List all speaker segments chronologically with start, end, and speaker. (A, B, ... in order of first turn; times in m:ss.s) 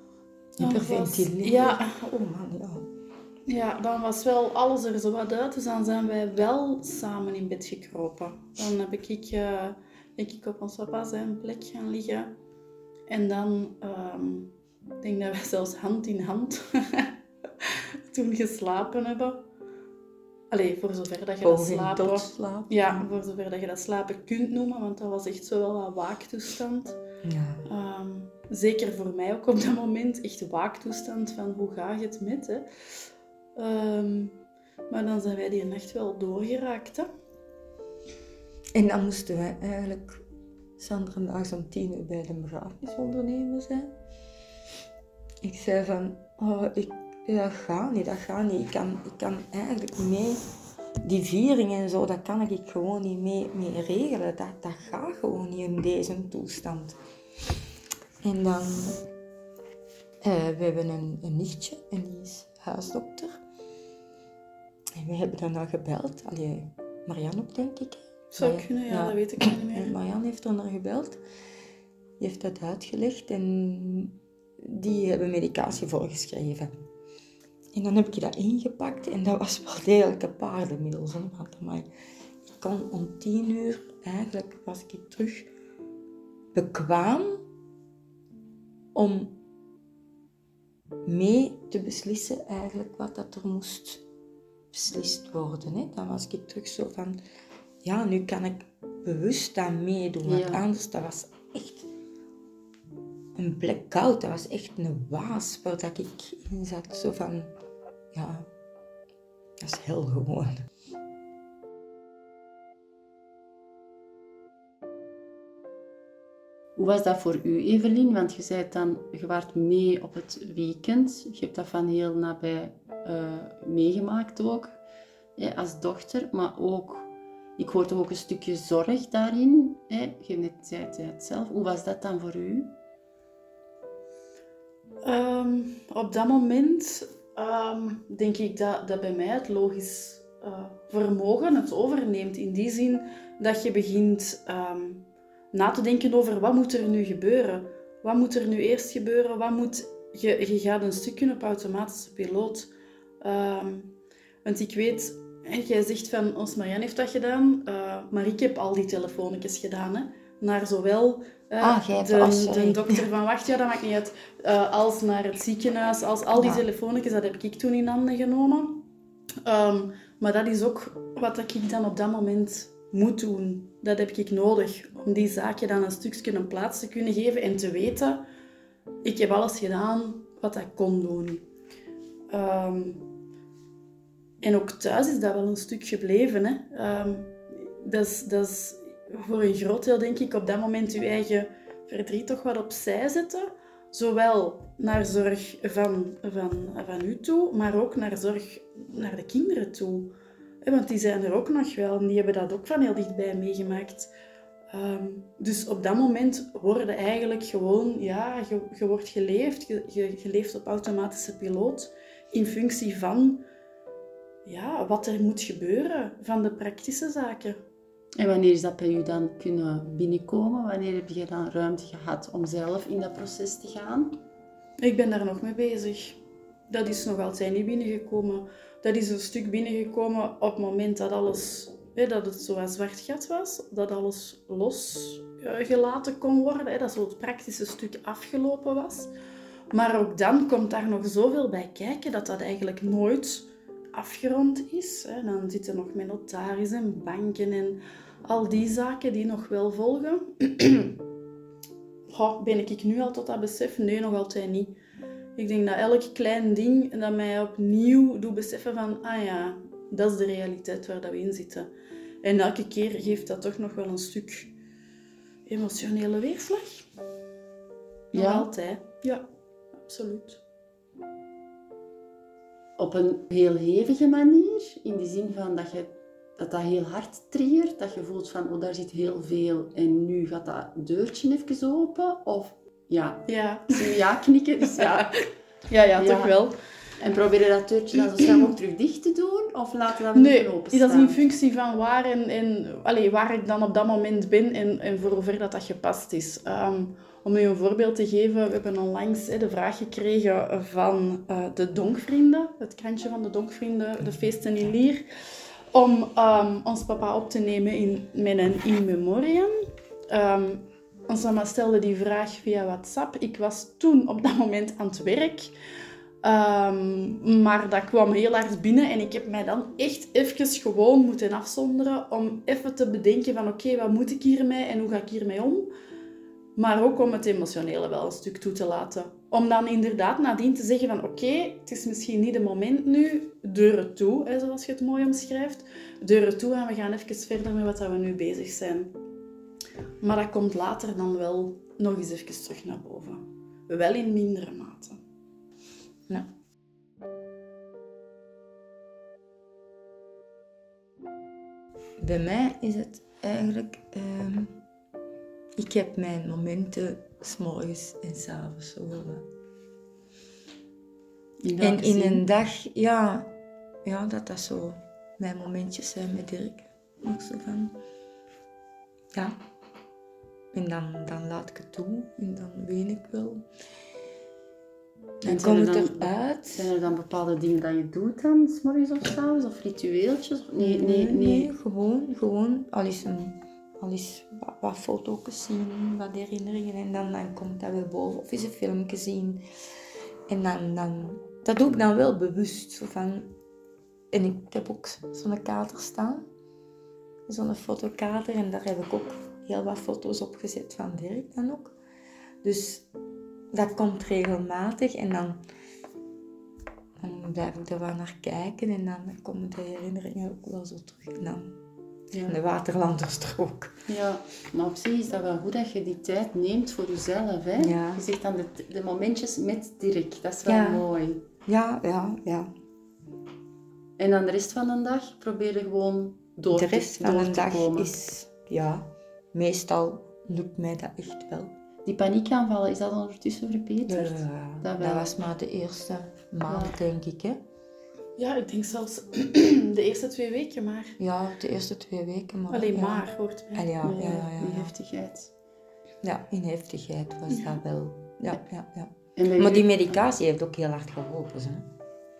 0:00.6-0:02.9 A
0:00.6-0:02.0 B
0:03.5-0:12.3 B
0:13.1-0:19.4 B
0:20.5-0:27.0 B
0:21.4-0:23.0 A
0:27.2-0:27.6 A
0:27.7-0:32.6 B
0:33.6-0:34.4 B
0:34.9-0:37.1 B
0:38.7-0:40.2 A
0:40.8-0:43.9 A
0:45.4-0:50.4 A
0:51.0-0:57.0 A
0:58.2-0:59.0 A
1:00.2-1:03.4 A
1:05.0-1:11.2 A
1:08.3-1:09.9 B
1:12.2-1:16.7 A
1:17.7-1:21.9 A
1:22.4-1:25.5 A
1:26.5-1:27.4 A
1:28.9-1:29.3 A
1:31.0-1:34.0 A
1:34.7-1:37.2 A
1:37.8-1:41.9 A
1:40.2-1:40.6 C
1:43.4-1:47.5 A
1:48.1-1:48.4 A
1:49.6-1:50.6 A
1:56.8-2:04.8 C
2:05.4-2:12.7 C
2:15.0-2:32.7 B
2:33.2-2:33.9 B
2:34.4-2:48.8 B
2:41.6-2:43.1 A
2:46.4-2:46.6 A
2:49.4-2:58.2 B
2:59.0-3:01.4 B
3:02.3-3:03.0 B
3:04.4-3:24.1 B
3:24.7-3:33.4 B
3:34.4-3:37.6 B
3:38.2-3:44.2 C
3:44.8-3:59.1 B
3:59.7-4:11.0 B
4:12.1-4:14.7 B
4:15.4-4:21.7 B
4:22.2-4:24.5 B
4:25.5-4:26.8 B
4:28.1-4:28.5 C
4:28.1-4:29.2 B
4:29.8-4:30.4 B
4:32.8-4:45.1 C
4:43.3-4:44.0 B
4:44.8-4:45.1 B
4:45.7-4:46.5 B
4:46.0-4:46.3 C
4:47.0-4:51.2 C
4:50.1-5:05.0 B
5:05.7-5:09.6 B
5:10.1-5:15.5 B
5:16.2-5:25.7 B
5:26.6-5:38.9 B
5:40.0-5:45.0 B
5:52.0-5:54.5 A
5:55.6-5:59.2 A
6:01.4-6:02.2 C
6:01.6-6:03.3 A
6:03.8-6:07.8 A
6:10.5-6:13.4 A
6:15.2-6:16.7 A
6:15.2-6:21.5 C
6:20.6-6:29.4 A
6:30.3-6:33.3 A
6:34.1-6:36.2 A
6:37.3-6:41.7 A
6:42.4-6:42.8 A
6:43.5-6:45.4 A
6:47.0-6:51.6 A
6:52.1-6:52.4 C
6:52.3-6:53.7 A
6:53.9-7:01.2 C
6:57.6-6:58.0 A
7:00.4-7:00.8 A
7:01.4-7:02.5 A
7:04.0-7:08.0 C
7:06.5-7:11.5 A
7:11.8-7:15.2 C
7:13.9-7:17.4 A
7:16.5-7:16.8 C
7:18.2-7:21.0 B
7:21.0-7:24.7 A
7:22.5-7:23.7 B
7:23.8-7:25.3 C
7:26.0-7:31.7 A
7:29.2-7:30.0 C